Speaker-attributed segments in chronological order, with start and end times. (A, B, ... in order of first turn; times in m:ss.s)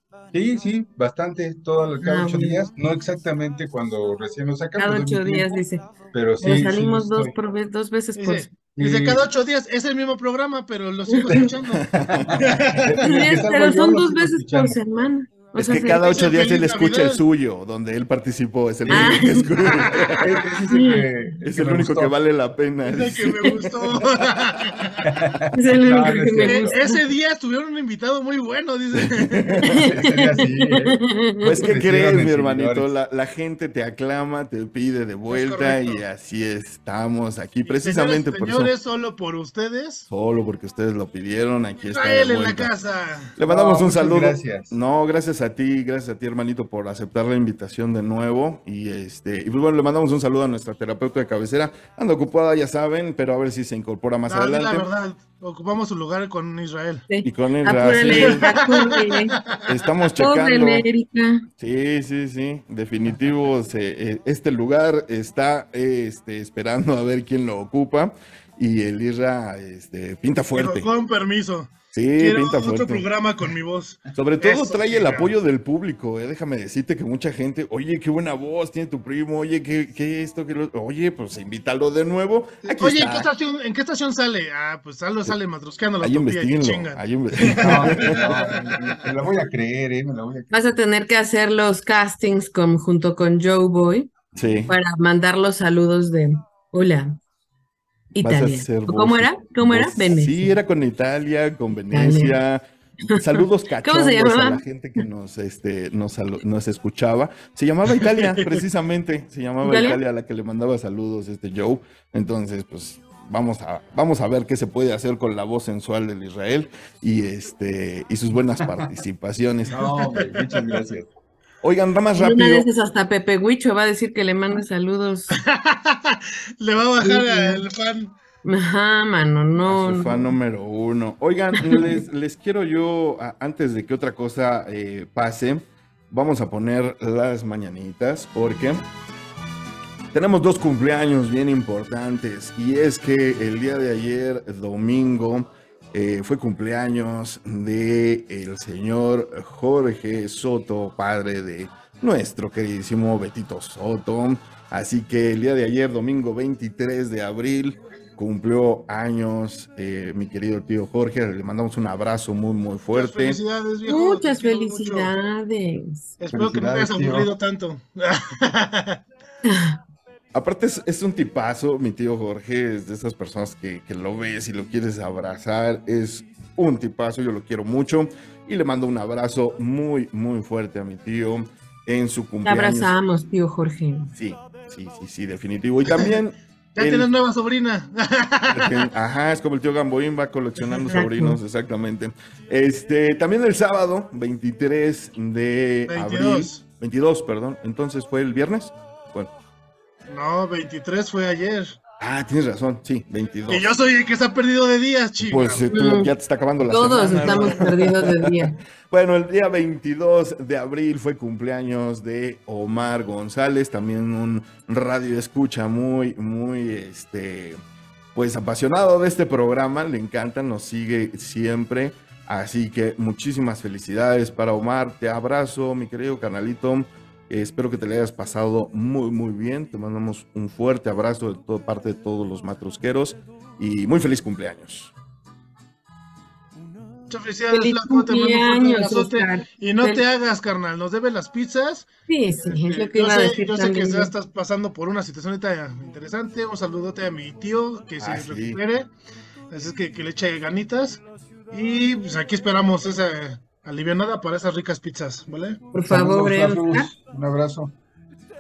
0:00.3-0:05.6 A
0:02.0-0:02.6 B
0:04.8-0:05.8 B
0:06.1-0:07.3 A
0:06.4-0:08.5 B
0:08.2-0:13.0 C
0:08.7-0:09.2 A
0:11.3-0:14.8 A
0:11.8-0:12.5 D
0:13.0-0:16.0 B
0:15.5-0:20.2 D
0:16.0-0:17.2 C
0:18.9-0:19.2 A
0:18.9-0:19.5 B
0:19.6-0:20.2 C
0:20.2-0:22.1 A
0:20.7-0:21.1 B
0:21.4-0:23.5 D
0:22.8-0:25.1 C
0:25.0-0:26.8 A
0:25.5-0:27.0 B
0:26.4-0:29.7 C
0:28.9-0:29.8 D
0:29.6-0:31.6 B
0:29.6-0:32.9 A
0:31.4-0:38.7 D
0:35.3-0:36.0 C
0:37.6-0:40.1 C
0:40.1-0:42.7 D
0:41.9-0:43.3 C
0:43.4-0:54.9 D
0:43.4-0:44.8 A
0:54.3-0:57.0 C
0:57.1-0:59.4 B
0:57.2-0:58.5 D
0:58.2-0:59.6 C
0:59.6-1:00.9 D
1:00.2-1:01.4 B
1:01.6-1:10.9 D
1:10.5-1:15.3 C
1:11.9-1:13.1 D
1:14.1-1:23.3 D
1:22.8-1:28.9 C
1:26.0-1:28.2 D
1:27.6-1:30.8 A
1:30.5-1:34.1 B
1:34.3-1:34.7 D
1:34.7-1:37.2 B
1:38.1-1:40.6 B
1:38.2-2:00.0 D
1:41.9-1:42.4 B
1:43.1-1:44.6 B
1:49.6-1:50.0 B
1:59.7-2:01.1 A
2:00.1-2:00.8 C
2:01.6-2:02.7 D
2:02.2-2:05.4 B
2:05.4-2:08.1 C
2:07.0-2:07.6 B
2:08.4-2:10.3 B
2:09.6-2:18.8 D
2:11.6-2:11.9 B
2:20.1-2:43.4 D
2:42.9-2:45.1 C
2:43.9-2:46.1 B
2:46.2-2:49.0 C
2:46.3-2:47.3 A
2:49.4-2:49.8 B
2:50.3-3:02.9 D
3:02.4-3:04.1 B
3:04.1-3:07.1 D
3:06.8-3:08.9 C
3:08.5-3:19.3 D
3:10.9-3:11.4 B
3:15.9-3:16.6 C
3:20.1-3:21.8 C
3:22.0-3:23.7 D
3:23.5-3:25.6 C
3:25.2-3:37.6 D
3:25.7-3:26.1 B
3:26.6-3:28.6 B
3:38.1-3:54.9 D
3:57.1-4:01.9 C
3:57.5-4:00.0 B
4:02.1-4:04.1 B
4:02.5-4:08.9 C
4:08.0-4:08.6 D
4:09.5-4:15.6 C
4:15.7-4:16.9 B
4:15.8-4:17.7 A